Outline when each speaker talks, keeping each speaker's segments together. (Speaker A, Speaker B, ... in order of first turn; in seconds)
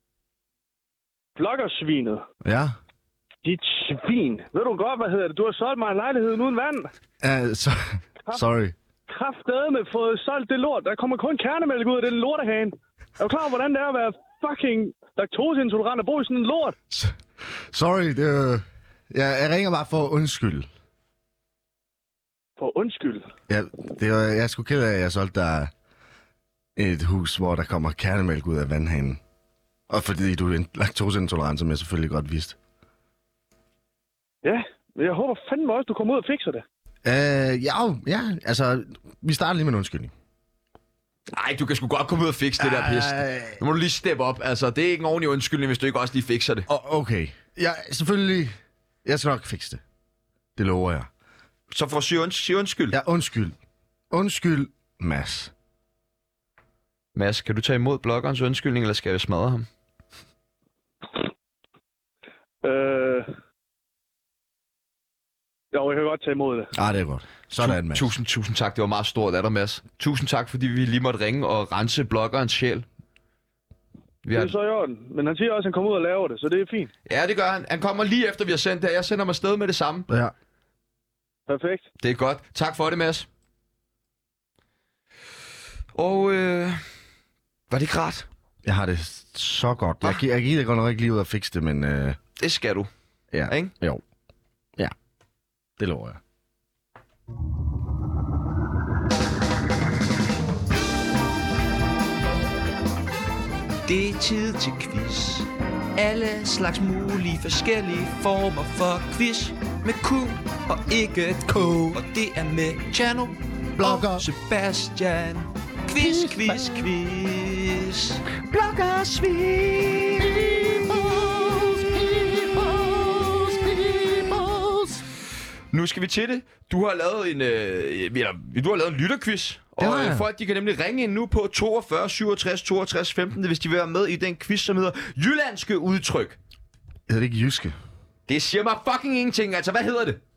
Speaker A: 1.4-2.2, 3.4-6.9, 9.1-16.8, 22.6-23.3, 34.4-36.6, 62.6-63.3, 65.7-66.7, 74.3-76.9, 81.5-81.9
Speaker B: 2.4-2.8, 7.2-8.8, 16.9-17.2, 17.7-20.7, 23.5-25.7, 26.8-29.2, 29.9-32.6, 37.0-40.1, 42.6-43.6, 46.7-49.8, 50.6-51.1, 52.9-53.6, 54.1-55.5, 66.8-68.1, 80.1-80.3, 88.6-92.2, 93.3-94.0, 95.8-96.2, 111.5-112.0, 113.8-114.3, 116.0-116.8, 120.2-125.0, 129.8-130.3, 137.1-137.8
Speaker C: 41.3-46.7, 51.7-53.0, 57.1-59.7, 67.6-72.9, 74.2-74.6, 77.1-80.1, 82.0-83.3, 86.0-86.8, 87.7-88.3, 92.4-92.9, 116.0-120.3, 125.7-136.4, 138.3-140.2
Speaker D: 103.9-116.9